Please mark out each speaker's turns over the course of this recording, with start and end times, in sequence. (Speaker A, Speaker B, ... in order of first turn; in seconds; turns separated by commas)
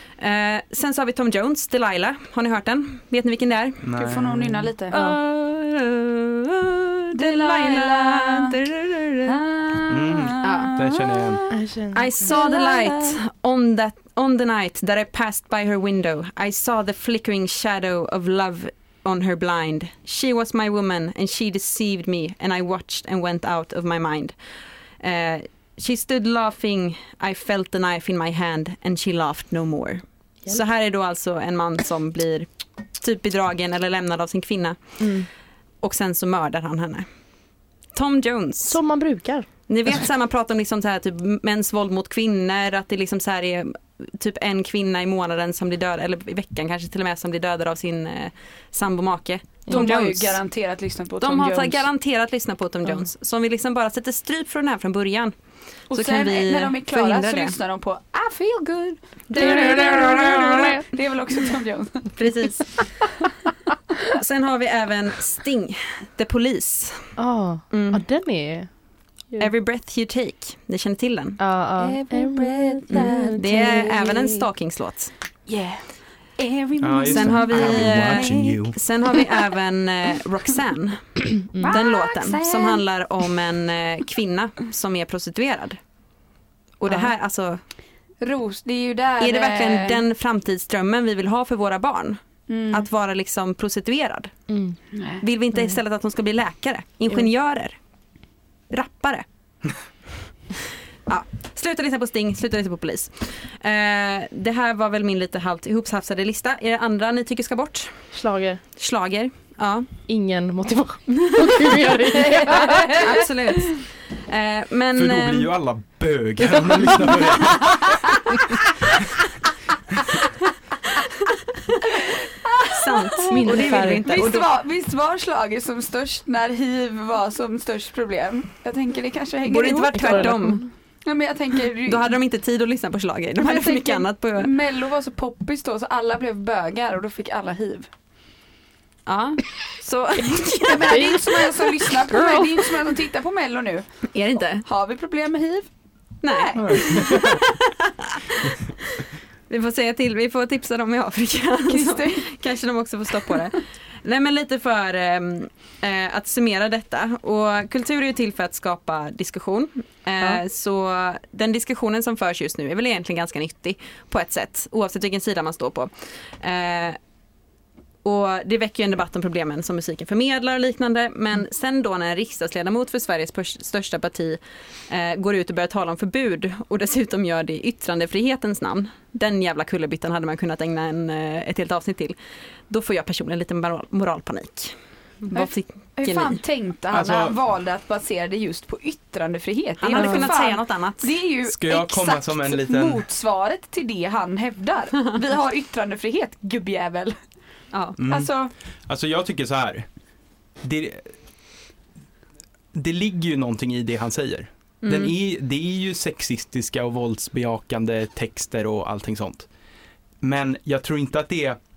Speaker A: 0.2-3.8, Speaker B: 3.8-4.7, Speaker C: 4.0-5.0, Speaker A: 4.9-9.4, Speaker D: 4.9-5.2, Speaker C: 7.1-8.6, Speaker C: 9.2-11.4, Speaker B: 9.9-11.4, Speaker A: 10.4-10.9, Speaker D: 11.5-12.3, Speaker A: 11.9-24.3, Speaker C: 12.2-13.2, Speaker A: 25.0-34.8, Speaker D: 35.0-35.3, Speaker A: 35.8-37.0, Speaker A: 37.9-38.8, Speaker D: 38.7-39.5, Speaker A: 39.7-50.4, Speaker C: 49.7-51.9, Speaker A: 51.2-55.3, Speaker A: 55.9-57.5, Speaker C: 55.9-62.1, Speaker A: 59.3-60.8, Speaker D: 59.4-60.8, Speaker A: 62.1-63.1, Speaker A: 64.0-67.1, Speaker D: 67.2-68.7, Speaker A: 67.7-68.0, Speaker A: 69.4-71.4, Speaker D: 71.4-74.4, Speaker C: 71.8-74.1, Speaker A: 72.9-75.1, Speaker C: 75.5-75.8, Speaker C: 76.4-78.6, Speaker B: 76.8-78.8, Speaker A: 77.1-85.8, Speaker C: 81.6-82.8, Speaker A: 86.8-87.6, Speaker C: 88.2-90.0, Speaker A: 89.2-92.2, Speaker C: 92.5-92.9, Speaker A: 92.7-94.3, Speaker D: 94.5-94.8, Speaker C: 94.9-95.2, Speaker A: 95.2-97.8, Speaker A: 98.7-99.2, Speaker A: 101.1-107.9, Speaker D: 108.1-108.6, Speaker A: 108.8-109.9, Speaker D: 110.1-113.0, Speaker A: 111.2-115.5, Speaker C: 112.3-113.0, Speaker B: 114.9-118.0, Speaker A: 117.1-117.3, Speaker C: 122.0-130.5, Speaker A: 122.6-124.5, Speaker D: 123.3-124.1, Speaker A: 129.4-130.7, Speaker D: 129.9-130.6, Speaker C: 131.0-132.1, Speaker A: 131.8-134.5, Speaker C: 133.4-137.9, Speaker A: 139.1-141.6, Speaker C: 140.6-143.9, Speaker A: 144.1-144.6, Speaker C: 144.6-145.7, Speaker A: 146.2-167.0, Speaker C: 146.3-147.3, Speaker B: 146.6-147.4, Speaker C: 151.7-152.3, Speaker A: 168.0-182.1, Speaker A: 182.7-186.4, Speaker C: 185.3-197.2, Speaker B: 186.9-187.4, Speaker A: 189.8-191.1, Speaker B: 191.4-193.0, Speaker A: 197.7-198.0, Speaker B: 198.0-198.3, Speaker C: 198.1-198.5, Speaker B: 198.9-199.8, Speaker B: 200.6-201.1, Speaker B: 202.7-209.5, Speaker A: 204.8-205.1, Speaker B: 210.2-211.6